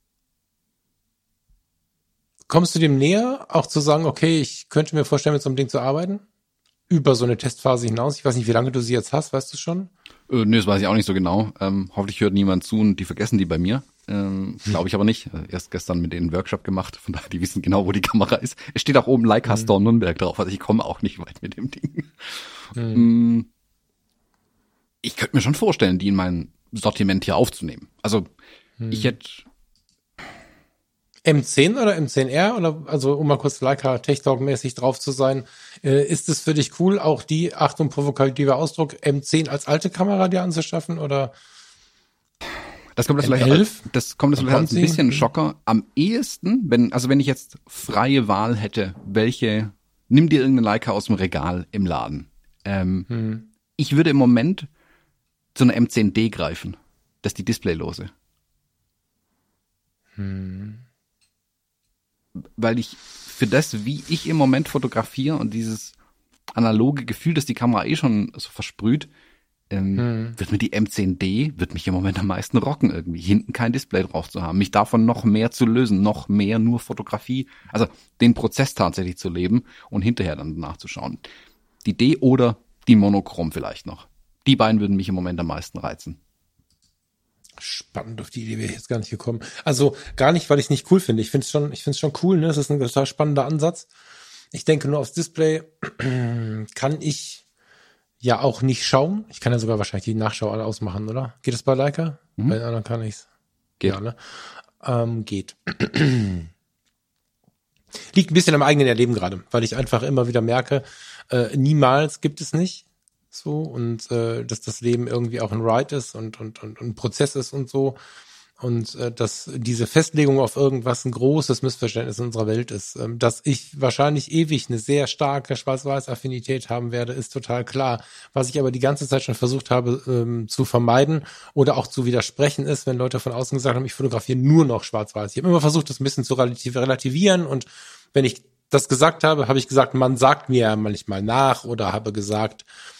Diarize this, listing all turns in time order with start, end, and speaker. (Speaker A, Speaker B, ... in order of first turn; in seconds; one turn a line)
Speaker A: 2.5-6.2
Speaker A: 6.9-9.9
Speaker B: 10.3-23.5
Speaker A: 22.8-23.1
Speaker B: 25.0-28.3
Speaker A: 28.8-29.1
Speaker B: 28.9-29.4
Speaker A: 31.2-41.3
Speaker B: 43.0-53.1
Speaker A: 43.2-45.2
Speaker A: 53.1-53.5
Speaker B: 53.8-54.7
Speaker B: 55.5-58.1
Speaker A: 60.1-60.8
Speaker B: 62.4-65.9
Speaker B: 66.5-69.1
Speaker B: 69.7-81.2
Speaker A: 70.0-70.4
Speaker B: 81.8-86.2
Speaker A: 87.6-93.9
Speaker A: 94.5-97.4
Speaker A: 98.2-103.2
Speaker A: 103.8-106.5
Speaker A: 108.1-118.0
Speaker A: 118.6-142.7